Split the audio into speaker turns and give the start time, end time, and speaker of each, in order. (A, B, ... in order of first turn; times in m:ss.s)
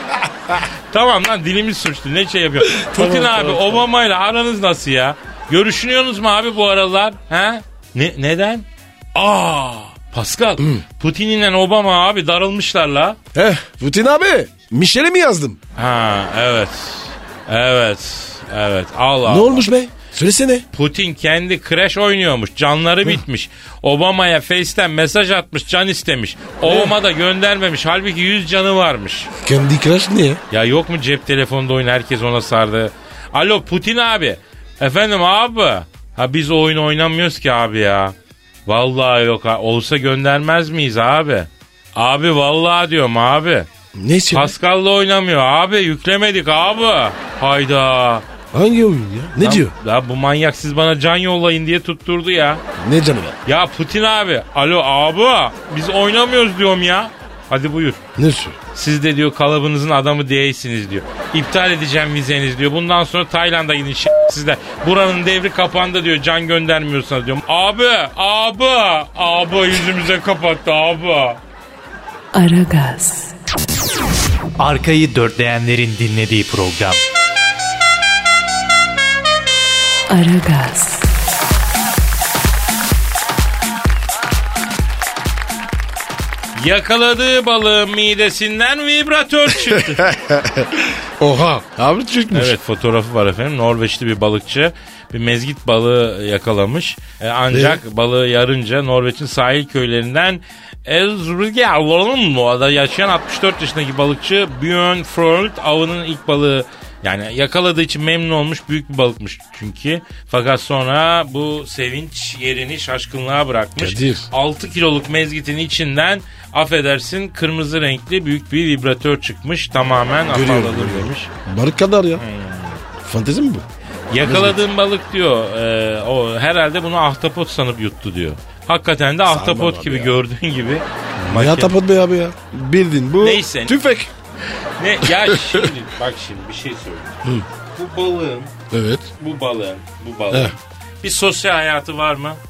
0:00.6-0:13.2 A
0:02.8-0:03.8 B
0:13.3-0:15.6 B
0:15.8-0:19.7 A
0:19.2-0:20.6 B
0:20.7-0:29.3 A
0:26.6-0:26.9 B
0:29.4-0:30.4 B
0:30.5-0:38.1 A
0:38.6-0:43.7 A
0:43.9-0:44.5 B
0:44.3-0:48.2 A
0:48.5-0:49.7 B
0:49.4-0:52.6 A
0:52.8-0:53.4 B
0:53.4-0:58.0 A
0:58.2-0:58.6 B
0:58.7-1:11.4 A
1:12.3-1:13.3 C
1:14.6-1:17.0 D
1:20.1-1:21.1 C
1:26.5-1:30.1 A
1:29.7-1:32.6 B
1:32.3-2:01.3 A
1:37.5-1:37.8 B
1:53.8-1:54.3 B
2:00.3-2:02.2 B
2:02.2-2:02.8 A
2:03.0-2:03.6 B
2:04.1-2:11.7 A
2:04.2-2:04.6 B
2:09.3-2:10.2 B
2:11.2-2:14.1 B
2:13.2-2:13.7 A
2:14.8-2:18.5 A
2:15.2-2:15.7 B
2:18.7-2:19.1 B
2:19.2-2:22.4 A